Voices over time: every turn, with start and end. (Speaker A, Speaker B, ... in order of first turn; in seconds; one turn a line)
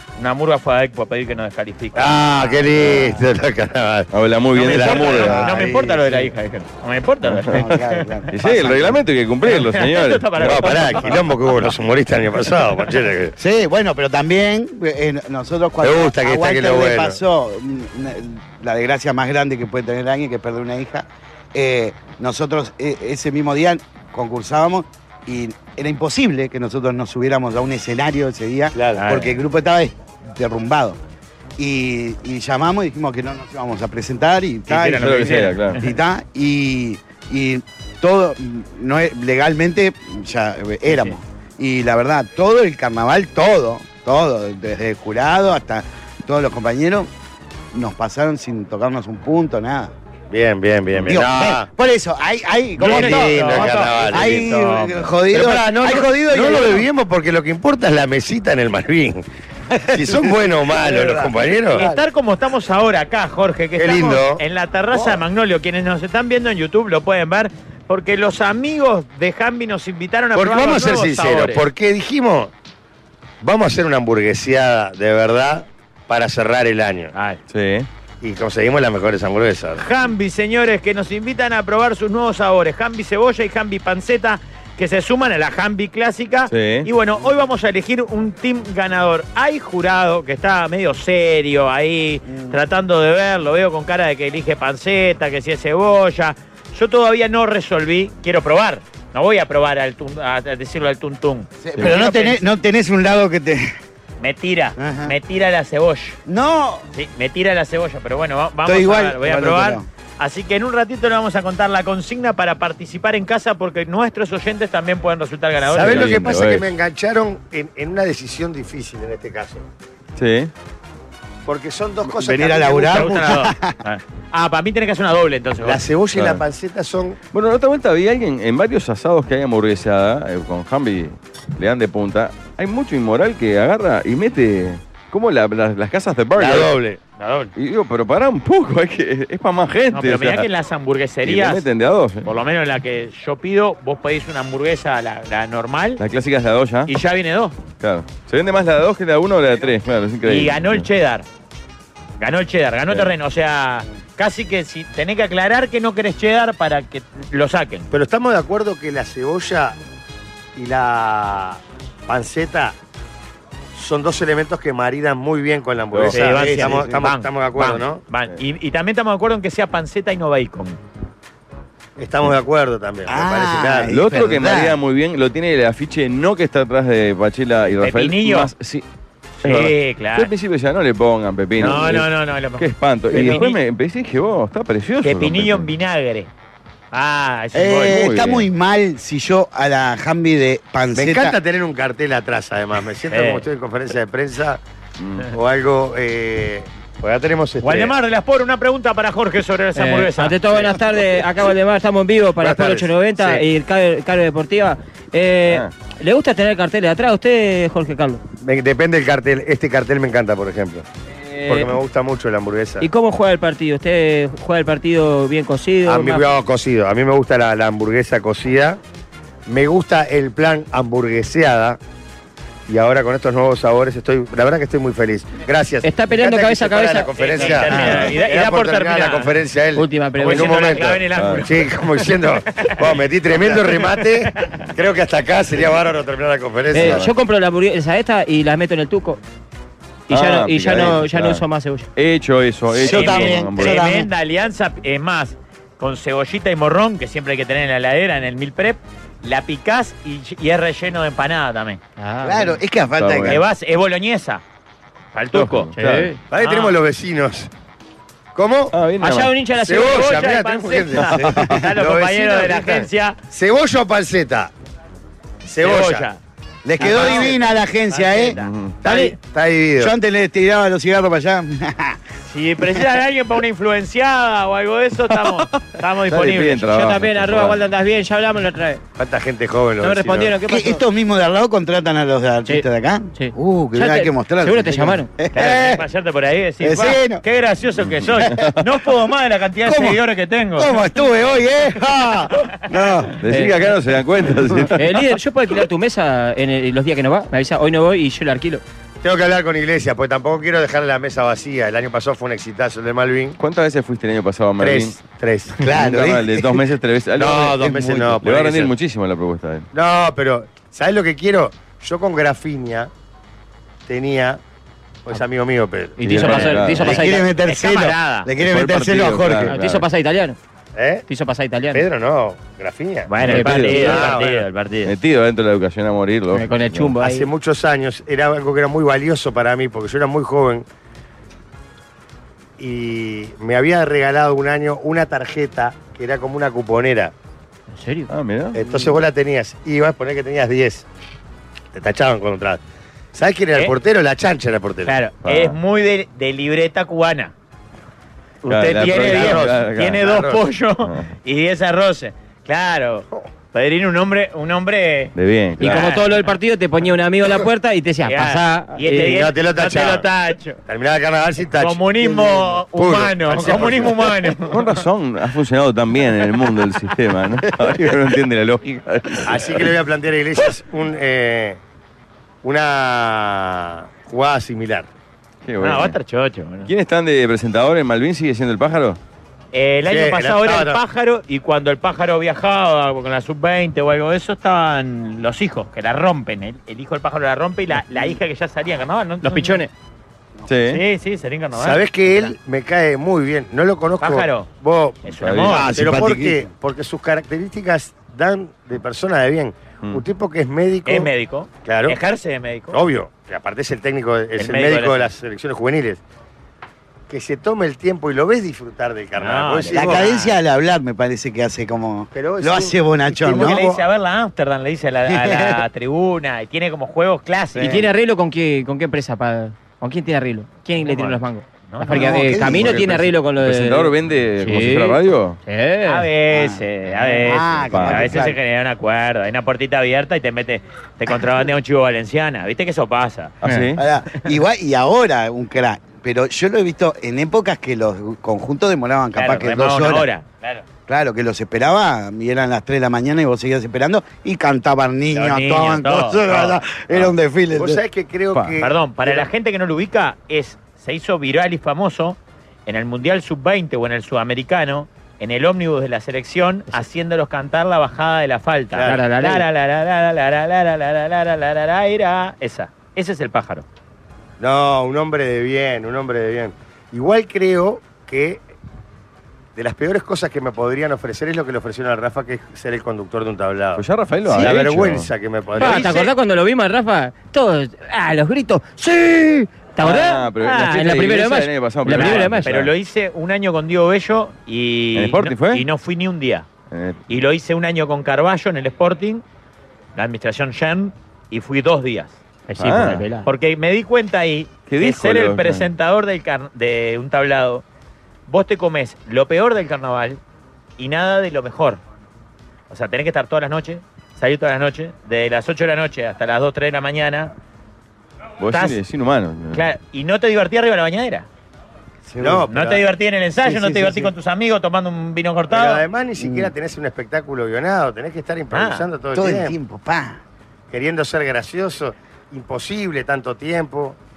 Speaker A: 0.2-2.9
Speaker B: 1.9-5.2
Speaker C: 4.1-5.4
Speaker A: 4.6-8.1
Speaker D: 4.9-6.3
Speaker C: 7.3-7.8
Speaker D: 7.5-9.0
Speaker C: 8.3-10.9
Speaker A: 9.4-11.2
Speaker B: 10.4-13.3
Speaker D: 13.4-31.0
Speaker B: 15.8-17.2
Speaker B: 28.7-29.0
Speaker A: 28.9-29.4
Speaker D: 31.6-47.1
Speaker A: 34.7-35.8
Speaker C: 35.0-35.8
Speaker A: 40.9-41.2
Speaker D: 47.7-49.9
Speaker B: 50.3-51.7
Speaker D: 51.0-56.9
Speaker B: 52.8-54.5
Speaker A: 52.8-55.1
Speaker B: 55.3-59.2
Speaker D: 59.7-61.9
Speaker B: 59.9-61.9
Speaker A: 61.7-71.6
Speaker B: 63.8-64.4
Speaker B: 70.3-72.5
Speaker B: 73.4-77.1
Speaker A: 77.1-77.4
Speaker C: 77.5-77.9
Speaker B: 78.2-79.8
Speaker A: 79.8-102.4
Speaker C: 86.5-86.9
Speaker D: 92.3-92.6
Speaker D: 101.6-103.7
Speaker A: 104.2-106.2
Speaker D: 104.8-105.1
Speaker D: 106.2-106.8
Speaker A: 106.9-116.2
Speaker D: 108.6-109.8
Speaker B: 115.6-119.6
Speaker C: 115.8-116.7
Speaker C: 120.2-120.5
Speaker B: 121.5-123.3
Speaker D: 122.0-123.8
Speaker A: 122.9-125.8
Speaker B: 125.6-127.2
Speaker C: 126.1-126.4
Speaker C: 127.3-136.7
Speaker B: 136.4-137.0
Speaker A: 137.2-137.5
Speaker C: 137.6-140.5
Speaker A: 139.9-141.6
Speaker C: 141.2-142.3
Speaker A: 142.2-146.0
Speaker C: 146.0-146.9
Speaker A: 146.9-147.6
Speaker C: 147.8-150.9
Speaker A: 150.2-151.2
Speaker A: 152.2-157.9
Speaker B: 157.9-159.8
Speaker B: 160.6-162.8
Speaker B: 163.7-168.0
Speaker A: 166.0-170.8
Speaker D: 166.1-167.0
Speaker B: 172.0-173.9
Speaker D: 173.1-174.8
Speaker C: 173.9-178.8
Speaker A: 177.8-178.5
Speaker C: 179.4-185.7
Speaker A: 179.4-180.3
Speaker A: 181.6-183.6
Speaker A: 185.0-186.3
Speaker A: 186.9-188.0
Speaker D: 187.5-191.4
Speaker C: 187.9-188.5
Speaker B: 190.9-194.6
Speaker A: 193.1-193.4
Speaker C: 195.0-195.2
Speaker B: 195.3-197.9
Speaker A: 197.6-200.4
Speaker E: 199.7-208.2
Speaker B: 200.6-201.0
Speaker B: 202.4-203.4
Speaker B: 208.4-210.8
Speaker E: 211.3-211.7
Speaker B: 211.4-212.9
Speaker E: 212.8-216.2
Speaker B: 215.8-218.8
Speaker B: 219.5-221.8
Speaker B: 222.7-237.1
Speaker E: 225.8-228.2
Speaker A: 227.2-229.3
Speaker E: 229.7-230.7
Speaker A: 230.2-232.8
Speaker C: 231.1-231.4
Speaker A: 234.3-234.7
Speaker E: 236.7-239.2
Speaker C: 236.7-237.1
Speaker E: 240.1-241.8
Speaker C: 240.1-241.4
Speaker C: 241.9-243.8
Speaker D: 242.7-244.1
Speaker A: 242.9-251.8
Speaker E: 252.0-252.6
Speaker D: 252.2-253.4
Speaker C: 253.0-253.4
Speaker A: 253.3-254.4
Speaker A: 255.1-255.7
Speaker C: 255.3-255.8
Speaker E: 255.8-256.2
Speaker B: 255.8-257.5
Speaker A: 256.4-256.8
Speaker B: 258.3-258.8
Speaker C: 258.7-259.3
Speaker E: 259.0-260.1
Speaker B: 259.6-264.5
Speaker A: 259.8-263.2
Speaker D: 261.0-261.6
Speaker B: 265.4-266.1
Speaker A: 265.6-266.2
Speaker D: 266.6-268.4
Speaker B: 266.8-267.3
Speaker A: 266.8-269.1
Speaker C: 268.4-268.8
Speaker B: 268.8-269.9
Speaker D: 269.8-272.0
Speaker A: 272.2-276.7
Speaker C: 275.1-277.6
Speaker E: 276.6-278.8
Speaker B: 279.0-280.4
Speaker E: 279.8-280.8
Speaker D: 280.4-285.9
Speaker E: 282.4-285.1
Speaker A: 285.3-290.8
Speaker D: 286.6-287.2
Speaker C: 287.9-288.5
Speaker D: 288.2-288.5
Speaker D: 289.6-290.0
Speaker D: 290.6-293.2
Speaker C: 293.2-295.1
Speaker E: 293.3-293.6
Speaker E: 294.7-298.6
Speaker B: 299.0-303.4
Speaker C: 303.4-305.0
Speaker B: 304.6-305.6
Speaker D: 305.6-306.6
Speaker C: 305.6-309.7
Speaker B: 307.1-308.7
Speaker D: 307.6-308.1
Speaker B: 309.7-312.9
Speaker B: 313.9-314.4
Speaker B: 315.0-316.6
Speaker E: 316.0-317.2
Speaker C: 316.0-317.0
Speaker A: 316.2-316.6
Speaker D: 316.8-319.5
Speaker A: 317.4-318.3
Speaker C: 318.4-319.9
Speaker E: 319.4-320.4
Speaker B: 320.7-321.0
Speaker E: 321.1-321.8
Speaker B: 321.7-323.1
Speaker A: 323.1-324.9
Speaker C: 323.2-324.1
Speaker E: 323.2-324.2
Speaker B: 323.7-324.4
Speaker C: 324.8-326.9
Speaker E: 326.3-327.3
Speaker B: 327.0-330.6
Speaker B: 332.6-337.1
Speaker E: 337.7-338.1
Speaker C: 338.1-338.6
Speaker B: 338.5-340.9
Speaker B: 341.7-342.6
Speaker B: 343.1-344.9
Speaker A: 344.8-347.3
Speaker C: 345.2-345.6
Speaker A: 348.4-356.1
Speaker C: 348.5-350.1
Speaker B: 348.9-350.4
Speaker C: 350.8-351.1
Speaker C: 355.1-355.9
Speaker E: 355.6-359.2
Speaker A: 358.0-360.6
Speaker B: 358.9-360.1
Speaker B: 360.6-364.3
Speaker A: 361.6-364.6
Speaker C: 364.5-369.7
Speaker B: 369.2-371.6
Speaker B: 372.4-374.9
Speaker C: 375.4-376.0
Speaker A: 375.6-376.7
Speaker C: 376.6-379.0
Speaker A: 379.5-389.6
Speaker B: 379.9-380.8
Speaker E: 389.2-389.7
Speaker C: 390.5-390.8
Speaker A: 390.7-392.3
Speaker B: 391.5-395.0
Speaker A: 394.0-394.5
Speaker A: 395.0-395.7
Speaker C: 395.2-395.7
Speaker D: 395.4-396.5
Speaker B: 395.6-401.1
Speaker A: 400.9-402.8
Speaker B: 401.6-402.0
Speaker B: 402.7-406.0
Speaker A: 404.4-405.1
Speaker B: 407.1-410.1
Speaker A: 409.2-410.4
Speaker D: 409.7-413.6
Speaker B: 412.1-413.8
Speaker A: 413.2-417.7
Speaker D: 415.1-415.6
Speaker D: 417.6-417.8
Speaker E: 417.6-426.1
Speaker A: 420.8-422.2
Speaker D: 421.9-423.0
Speaker C: 422.5-425.4
Speaker A: 425.9-433.4
Speaker D: 426.3-428.4
Speaker C: 427.7-428.2
Speaker C: 433.4-433.8
Speaker D: 433.7-440.1
Speaker A: 439.1-440.6
Speaker D: 440.9-447.8
Speaker A: 445.1-446.6
Speaker B: 447.6-449.3
Speaker A: 448.6-463.6
Speaker B: 458.7-459.0
Speaker E: 458.9-459.4
Speaker B: 464.4-468.4
Speaker B: 469.6-475.9
Speaker C: 473.8-475.1
Speaker A: 475.6-476.1
Speaker E: 475.6-482.5
Speaker C: 479.8-482.7
Speaker A: 481.9-486.5
Speaker C: 484.9-485.6
Speaker C: 486.7-487.0
Speaker A: 487.1-489.2
Speaker A: 489.9-492.2
Speaker E: 492.5-493.3
Speaker C: 492.6-493.0
Speaker A: 493.2-497.6
Speaker C: 494.7-495.7
Speaker A: 498.3-500.2
Speaker A: 500.8-501.8
Speaker A: 502.7-507.3
Speaker C: 508.4-509.6
Speaker A: 508.5-508.8
Speaker A: 509.5-511.3
Speaker D: 512.1-512.5
Speaker B: 512.2-512.8
Speaker A: 512.5-515.8
Speaker D: 513.4-514.1
Speaker B: 515.5-519.5
Speaker D: 516.2-516.5
Speaker A: 518.5-518.9
Speaker D: 519.1-520.2
Speaker B: 520.7-524.0